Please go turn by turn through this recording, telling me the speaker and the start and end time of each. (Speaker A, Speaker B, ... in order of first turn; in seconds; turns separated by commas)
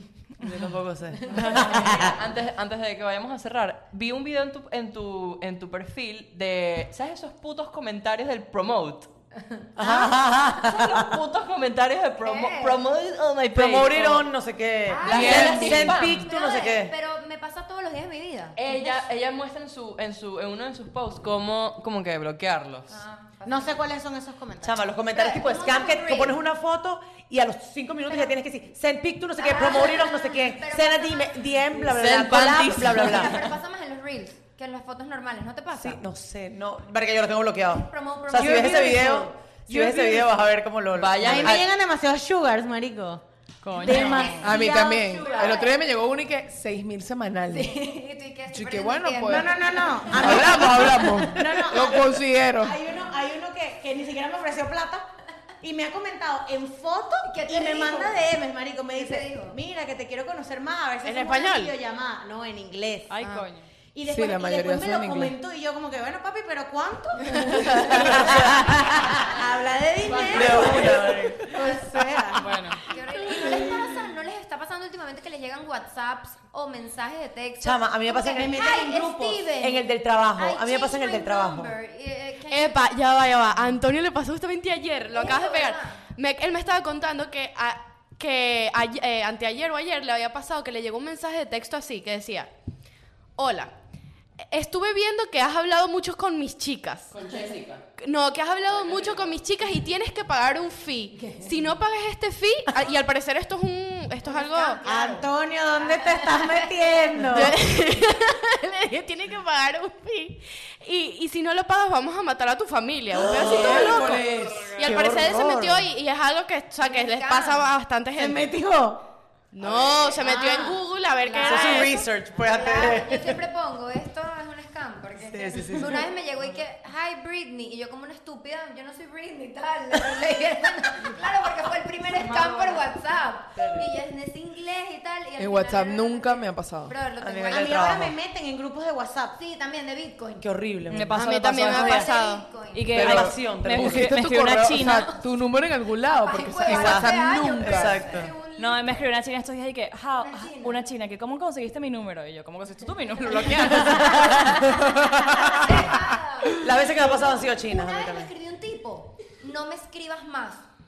Speaker A: 0.4-2.2, Speaker B: 1.3-9.1, Speaker A: 9.8-11.2, Speaker C: 9.8-10.1, Speaker B: 10.6-14.3, Speaker C: 12.2-12.8, Speaker A: 13.5-16.9, Speaker C: 14.9-18.6, Speaker B: 15.0-16.3, Speaker B: 18.6-23.0, Speaker C: 22.9-23.9, Speaker D: 23.4-24.9, Speaker A: 24.6-33.5, Speaker C: 25.1-26.4, Speaker C: 28.1-28.4, Speaker C: 29.4-31.9, Speaker B: 31.9-33.5, Speaker C: 32.9-36.0, Speaker A: 35.7-41.6, Speaker C: 37.8-39.3, Speaker E: 39.7-40.3, Speaker B: 40.9-41.7, Speaker D: 41.2-43.2, Speaker B: 43.7-44.0, Speaker F: 43.7-44.5, Speaker D: 43.8-45.6, Speaker C: 43.8-45.8, Speaker E: 44.4-47.9, Speaker C: 47.5-50.7, Speaker E: 48.5-49.6, Speaker D: 49.2-55.0, Speaker E: 50.1-52.8, Speaker D: 55.6-63.4, Speaker C: 57.3-58.2, Speaker C: 59.0-59.6, Speaker G: 61.0-61.8, Speaker F: 63.1-63.7, Speaker D: 63.9-73.8, Speaker E: 64.0-65.4, Speaker A: 67.9-68.6, Speaker A: 70.3-71.4, Speaker C: 71.6-83.0, Speaker F: 72.4-72.8, Speaker A: 77.6-78.7, Speaker D: 78.3-79.5, Speaker A: 79.6-81.7, Speaker G: 82.5-92.5, Speaker C: 85.1-86.0, Speaker G: 93.4-93.7, Speaker G: 94.4-97.2, Speaker B: 97.1-97.8, Speaker G: 98.0-104.8, Speaker C: 104.2-105.2, Speaker D: 104.8-107.6, Speaker C: 105.8-107.2, Speaker G: 107.3-118.5, Speaker E: 113.2-114.8, Speaker A: 113.3-113.7, Speaker A: 114.8-115.9, Speaker C: 116.8-117.7, Speaker D: 118.1-119.0, Speaker G: 119.5-122.0, Speaker D: 119.6-120.8, Speaker C: 121.2-137.9, Speaker A: 121.4-123.4, Speaker A: 125.3-126.1, Speaker B: 132.1-132.8, Speaker B: 133.6-133.9, Speaker E: 135.4-137.0, Speaker A: 137.2-138.2, Speaker D: 137.5-139.4, Speaker C: 139.3-140.5, Speaker A: 140.4-141.2, Speaker F: 140.9-145.2, Speaker G: 141.1-142.5, Speaker C: 141.6-143.1, Speaker A: 142.9-144.1, Speaker E: 142.9-148.1, Speaker C: 144.8-145.2, Speaker C: 146.1-149.1, Speaker A: 146.7-148.3, Speaker F: 148.6-154.8, Speaker C: 150.2-150.8, Speaker C: 153.7-154.0, Speaker C: 155.3-160.7, Speaker A: 156.6-158.3